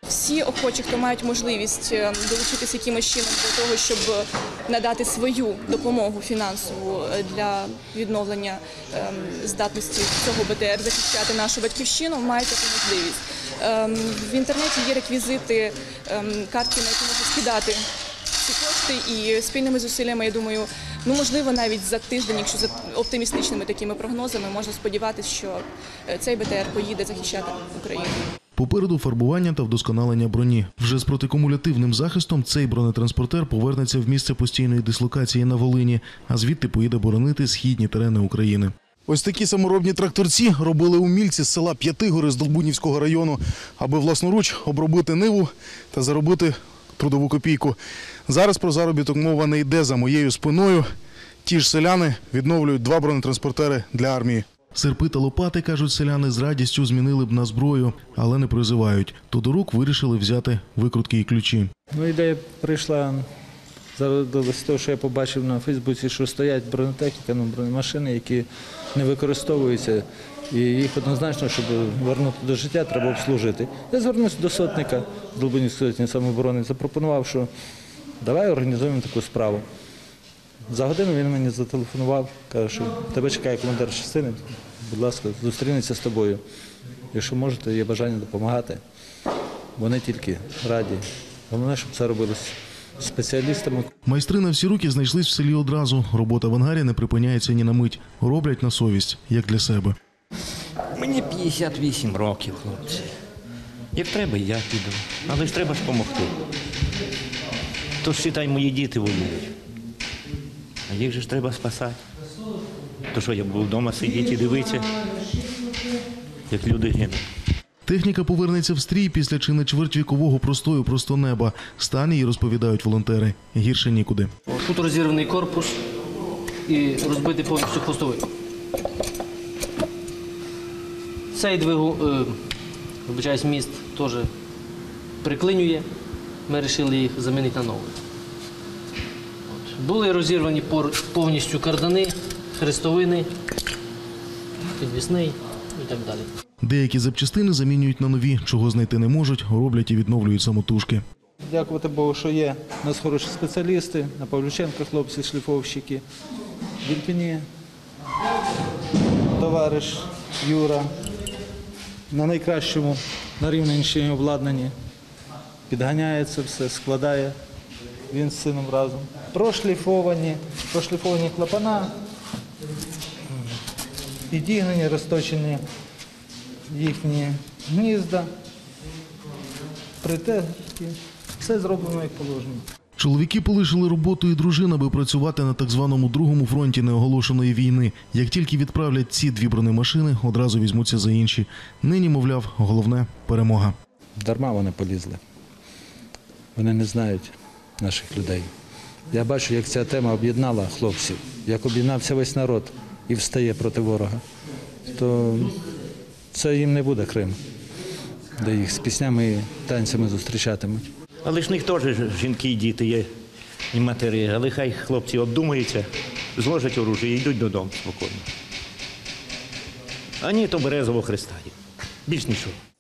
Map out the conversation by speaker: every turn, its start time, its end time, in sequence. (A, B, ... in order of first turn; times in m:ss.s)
0:00.1-0:17.8 A
0:18.4-0:28.2 A
0:28.6-0:50.9 B
0:51.4-1:01.7 B
1:01.9-1:03.3 C
1:04.0-1:17.5 C
1:18.2-1:19.6 C
1:20.7-1:26.4 C
1:27.1-1:28.8 C
1:29.8-1:33.9 C
1:34.0-1:40.0 B
1:41.0-1:43.1 D
1:43.9-1:46.4 D
1:48.0-1:49.5 D
1:50.9-1:52.0 D
1:53.1-1:55.0 D
1:56.5-1:57.2 D
1:57.9-2:04.3 B
2:04.5-2:05.8 E
2:06.7-2:08.3 E
2:11.3-2:12.4 E
2:13.1-2:14.3 E
2:15.2-2:15.9 E
2:16.5-2:18.0 E
2:19.6-2:23.3 E
2:24.8-2:26.3 E
2:26.6-2:31.0 B
2:31.5-2:36.0 C
2:36.8-2:37.5 C
2:39.3-2:40.9 C
2:42.1-2:44.7 C
2:45.7-2:47.4 C
2:48.1-2:51.9 C
2:54.3-2:55.6 C
2:56.7-2:58.3 C
3:00.0-3:02.6 C
3:03.0-3:13.8 B
3:14.2-3:15.2 C
3:16.6-3:18.5 C
3:19.1-3:24.2 C
3:24.9-3:25.6 C
3:26.3-3:27.4 C
3:28.4-3:30.9 C
3:31.2-3:33.1 D
3:33.7-3:38.3 D
3:40.2-3:42.6 D